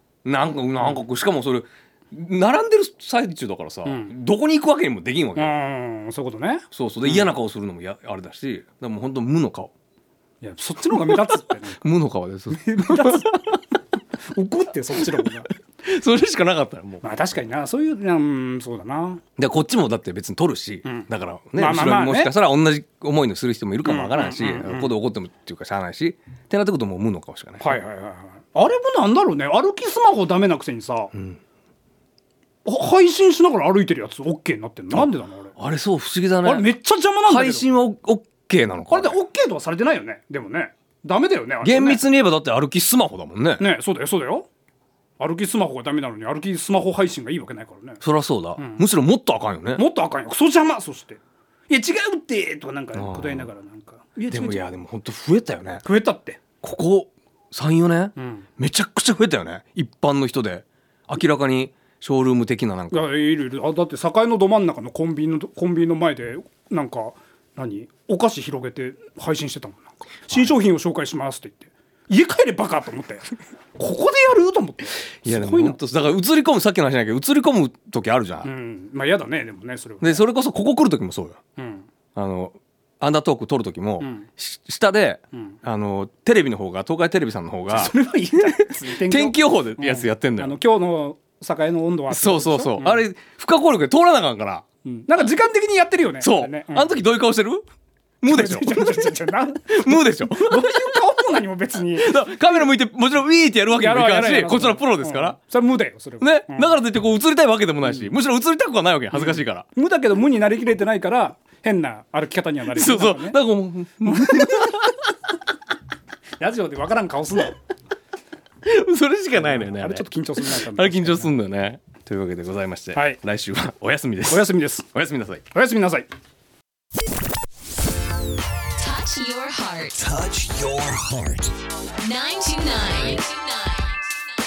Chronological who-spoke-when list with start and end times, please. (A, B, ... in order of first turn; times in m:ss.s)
0:00.2-0:05.5 A
0:03.8-0:04.1 B
0:05.4-0:07.3 B
0:06.7-0:09.7 A
0:10.4-0:11.8 B
0:11.8-0:13.3 A
0:12.5-0:13.5 B
0:14.3-0:15.5 B
0:15.8-0:17.0 A
0:17.0-0:19.2 B
0:19.4-0:27.8 A
0:20.8-0:22.3 B
0:23.8-0:24.9 B
0:27.6-0:31.1 B
0:32.6-0:35.5 B
0:34.9-0:36.7 A
0:36.4-0:37.6 B
0:37.2-0:39.2 A
0:38.9-0:42.0 B
0:41.6-0:43.7 A
0:43.6-0:44.5 B
0:45.2-0:48.0 B
0:48.0-0:49.8 A
0:48.6-0:48.8 B
0:49.7-0:54.6 B
0:52.9-0:53.5 A
0:54.3-0:55.8 A
0:55.8-0:56.4 B
0:56.6-1:03.1 A
0:58.2-0:58.5 B
1:02.9-1:15.8 B
1:15.2-1:18.5 A
1:18.4-1:20.2 B
1:20.0-1:21.4 A
1:21.6-1:21.8 B
1:22.2-1:30.6 A
1:24.0-1:24.3 B
1:27.7-1:33.0 B
1:32.1-1:34.6 A
1:34.8-1:36.9 B
1:36.2-1:37.6 A
1:38.2-1:39.2 A
1:38.2-1:42.6 B
1:39.7-1:41.0 A
1:42.0-1:45.4 A
1:43.8-1:46.7 B
1:46.2-1:49.6 A
1:47.8-1:48.1 B
1:49.1-1:53.4 B
1:52.7-1:55.0 A
1:54.1-1:54.8 B
1:56.4-1:57.5 B
1:58.6-2:05.4 A
1:59.3-2:01.3 B
2:02.9-2:03.2 B
2:04.3-2:04.8 B
2:05.5-2:06.1 B
2:08.8-2:10.4 C
2:12.0-2:14.2 C